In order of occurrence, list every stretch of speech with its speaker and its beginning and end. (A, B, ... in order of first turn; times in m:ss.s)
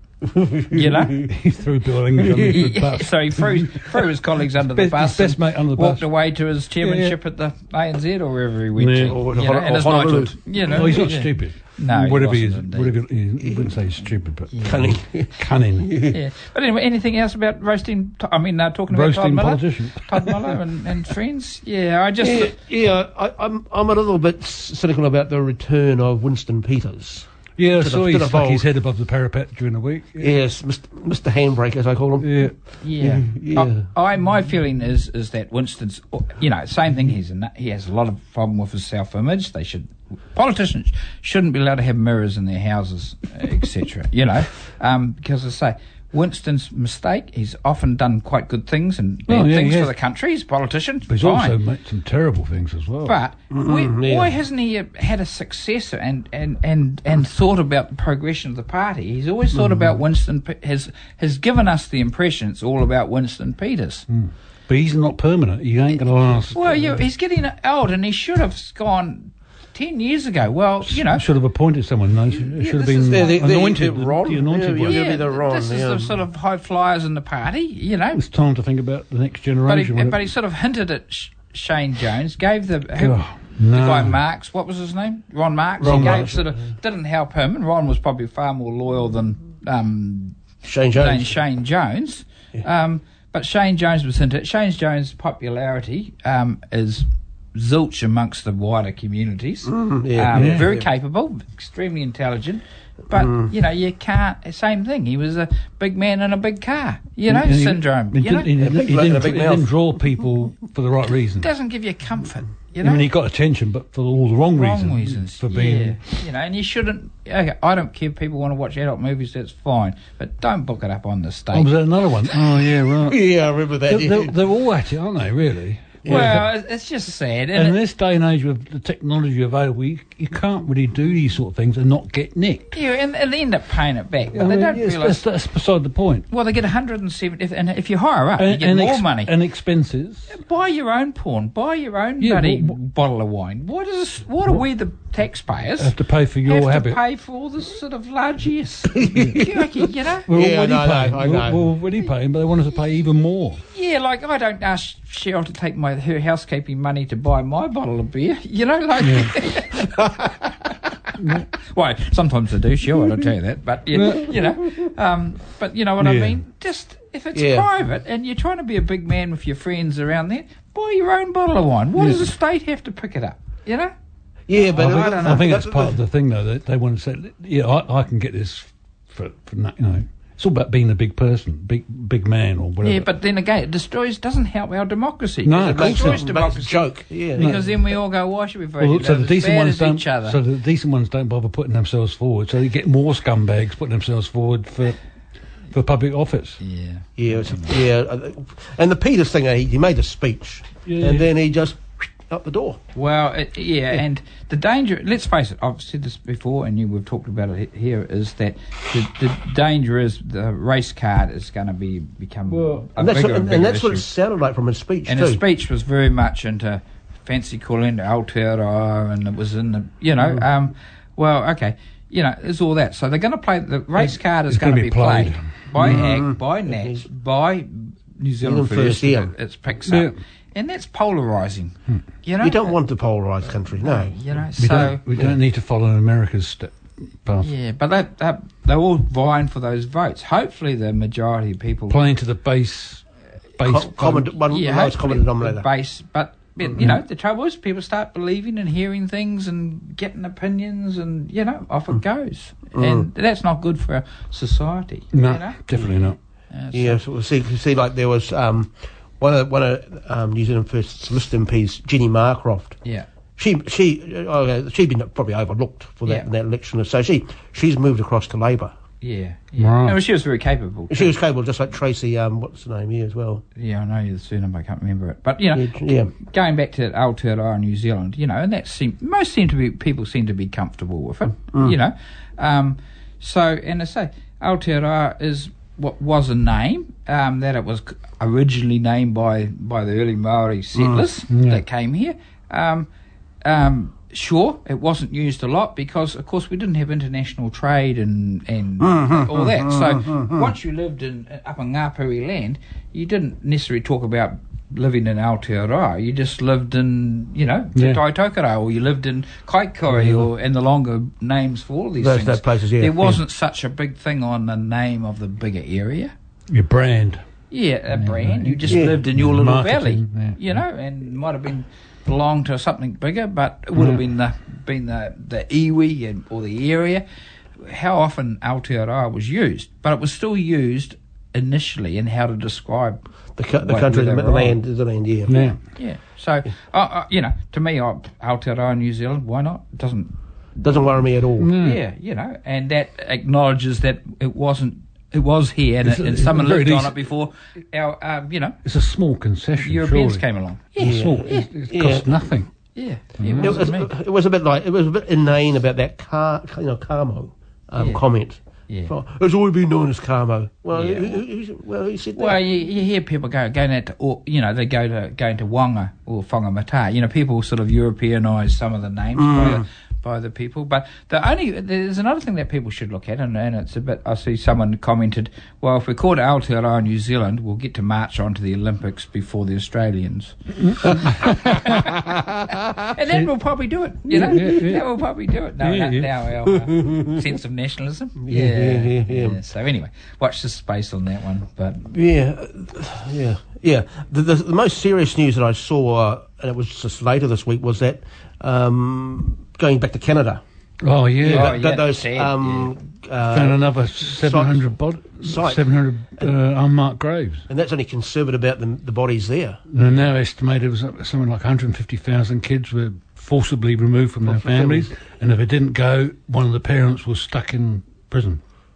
0:00.2-0:01.3 A
0:00.7-0:01.3 B
0:01.2-0:04.0 C
0:02.4-0:12.9 B
0:04.7-0:06.0 C
0:06.8-0:07.1 C
0:08.8-0:09.2 C
0:09.0-0:11.1 A
0:10.6-0:15.9 C
0:13.4-0:13.8 A
0:14.5-0:14.8 B
0:14.6-0:16.2 A
0:16.0-0:22.5 B
0:18.9-0:20.3 C
0:22.2-0:28.6 A
0:27.6-0:30.3 C
0:30.2-0:33.8 A
0:32.2-0:32.5 C
0:32.8-0:51.6 B
0:49.3-0:49.9 C
0:51.1-0:53.2 C
0:53.0-1:04.0 B
0:53.5-0:54.3 A
1:04.1-1:06.8 C
1:06.5-1:11.2 B
1:10.9-1:15.0 C
1:12.3-1:13.5 B
1:13.1-1:16.2 A
1:14.8-1:18.2 B
1:18.1-1:20.2 C
1:19.6-1:30.4 B
1:23.0-1:24.2 C
1:25.8-1:26.5 A
1:25.8-1:26.3 C
1:30.6-1:31.4 A
1:30.9-1:48.5 B
1:39.6-1:40.8 A
1:40.3-1:40.6 C
1:43.1-1:43.5 A
1:47.3-1:51.5 C
1:48.6-1:49.7 A
1:51.4-1:53.1 B
1:52.8-1:56.0 C
1:54.5-2:01.7 B
2:01.5-2:03.2 C
2:03.0-2:04.4 A
2:03.9-2:06.5 C
2:06.0-2:06.4 A
2:06.0-2:07.8 B
2:07.5-2:12.8 C
2:12.7-2:15.2 B
2:14.3-2:16.3 C
2:16.3-2:19.3 B
2:18.4-2:20.3 C
2:20.3-2:25.9 B
2:22.2-2:22.7 C
2:25.8-2:27.0 C
2:26.4-2:30.3 B
2:28.9-2:29.7 A
2:30.3-2:33.6 C
2:30.3-2:31.7 A
2:33.7-2:40.7 B
2:39.0-2:39.3 C
2:41.2-2:41.5 C
2:41.3-2:53.9 B
2:43.9-2:44.6 C
2:46.0-2:46.4 C
2:47.3-2:47.7 A
2:54.5-2:56.0 A
2:54.5-2:55.5 B
2:54.8-3:03.1 C
3:02.8-3:10.4 B
3:05.4-3:06.2 C
3:05.6-3:07.6 A
3:07.4-3:07.6 C
3:08.8-3:15.0 C
3:15.7-3:16.6 C
3:16.6-3:17.7 B
3:17.2-3:22.8 A
3:20.8-3:21.3 C
3:22.9-3:34.0 B
3:32.5-3:32.8 C
3:33.0-3:35.4 A
3:35.1-3:52.7 B
3:44.0-3:46.2 C
3:45.8-3:47.0 A
3:48.4-3:49.3 A
3:49.9-3:50.1 C
3:52.4-3:54.2 A
3:53.8-3:55.0 B
3:54.6-3:57.5 C
3:57.4-4:02.0 B
4:01.9-4:03.0 C
4:03.6-4:04.3 C
4:03.6-4:05.7 A
4:04.5-4:15.6 B
4:12.7-4:13.1 A
4:15.1-4:16.2 C
4:16.5-4:17.0 B
4:16.7-4:22.8 A
4:23.4-4:28.7 A
4:29.0-4:31.1 B
4:29.6-4:30.0 C
4:30.9-4:33.4 A
4:33.6-4:52.9 B
4:35.5-4:36.1 A
4:51.3-4:51.6 C
4:53.4-5:16.1 B
4:58.8-5:00.4 A
5:07.8-5:08.0 C
5:09.9-5:10.2 C
5:12.0-5:13.2 A
5:16.5-5:17.2 C
5:17.5-5:27.0 B
5:17.9-5:20.4 C
5:18.7-5:19.0 A
5:27.6-5:33.0 B
5:33.4-5:35.4 A
5:33.6-5:34.6 B
5:35.3-5:35.6 C
5:35.3-5:40.1 B
5:40.6-5:41.5 A
5:41.4-5:41.8 C
5:41.6-5:48.6 B
5:45.8-5:46.9 C
5:48.6-5:50.2 C
5:49.6-5:51.5 B
5:50.8-5:52.5 C
5:50.8-5:52.1 A
5:52.8-5:53.9 B
5:53.2-5:53.6 C
5:53.4-6:02.4 A
5:57.8-5:58.0 B
6:00.7-6:01.2 B
6:02.2-6:22.0 B
6:09.2-6:09.6 A
6:20.6-6:21.7 C
6:22.0-6:22.7 A
6:22.9-6:31.9 B
6:24.1-6:24.8 C
6:25.6-6:26.1 C
6:26.8-6:27.1 A
6:28.2-6:29.4 A
6:31.9-6:40.4 A
6:40.8-6:41.5 C
6:41.2-6:45.6 A
6:41.2-6:42.8 B
6:43.3-6:47.4 C
6:47.5-6:49.6 A
6:49.7-6:58.4 C
6:54.3-6:54.9 A